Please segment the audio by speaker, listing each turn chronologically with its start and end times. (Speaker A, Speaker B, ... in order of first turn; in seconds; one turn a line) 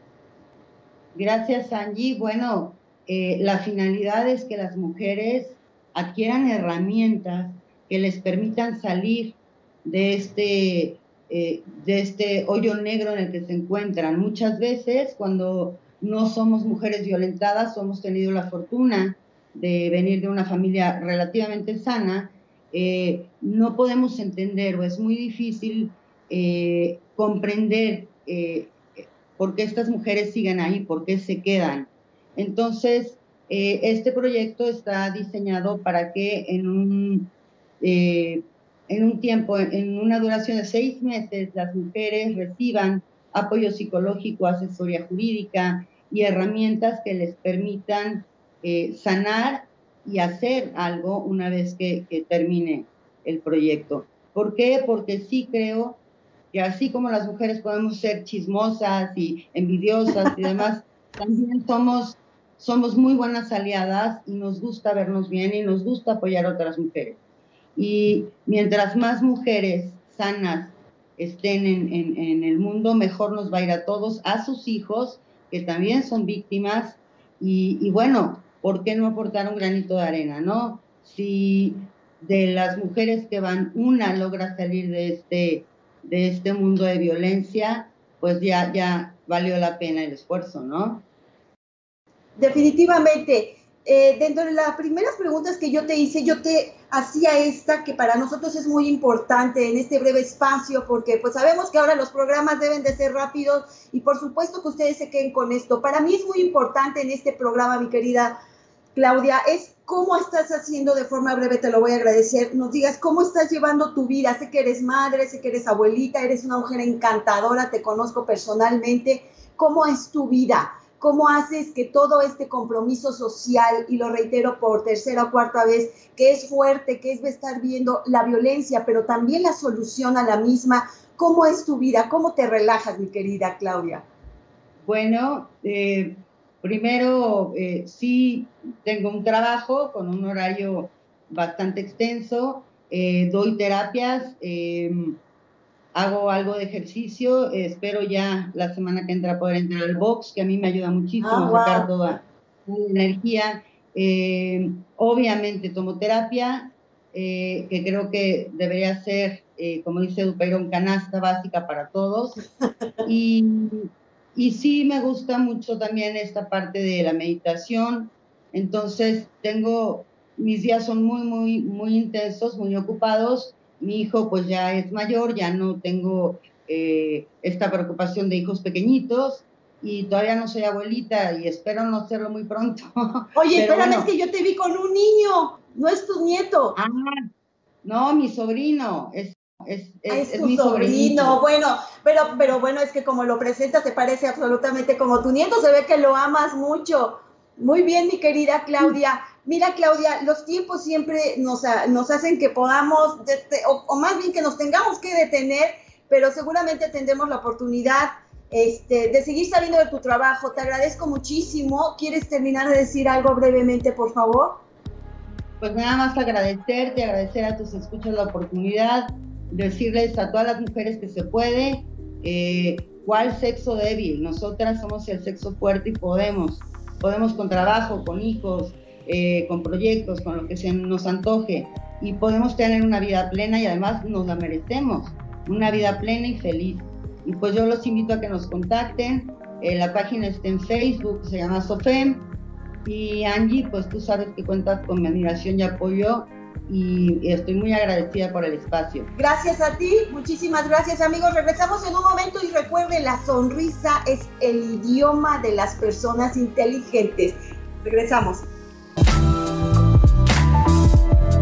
Speaker A: 1.1-56.0
Speaker A: 56.5-67.2
Speaker A: 67.8-91.0
Speaker B: 92.4-108.4
Speaker B: 109.0-134.1
Speaker A: 134.8-145.2
Speaker A: 145.9-162.4
Speaker B: 151.2-151.9
Speaker A: 163.0-184.1
Speaker B: 183.3-186.8
Speaker A: 186.8-187.3
Speaker A: 187.8-191.4
Speaker B: 190.1-214.6
Speaker A: 215.6-242.3
Speaker A: 242.8-249.1
Speaker B: 249.1-258.5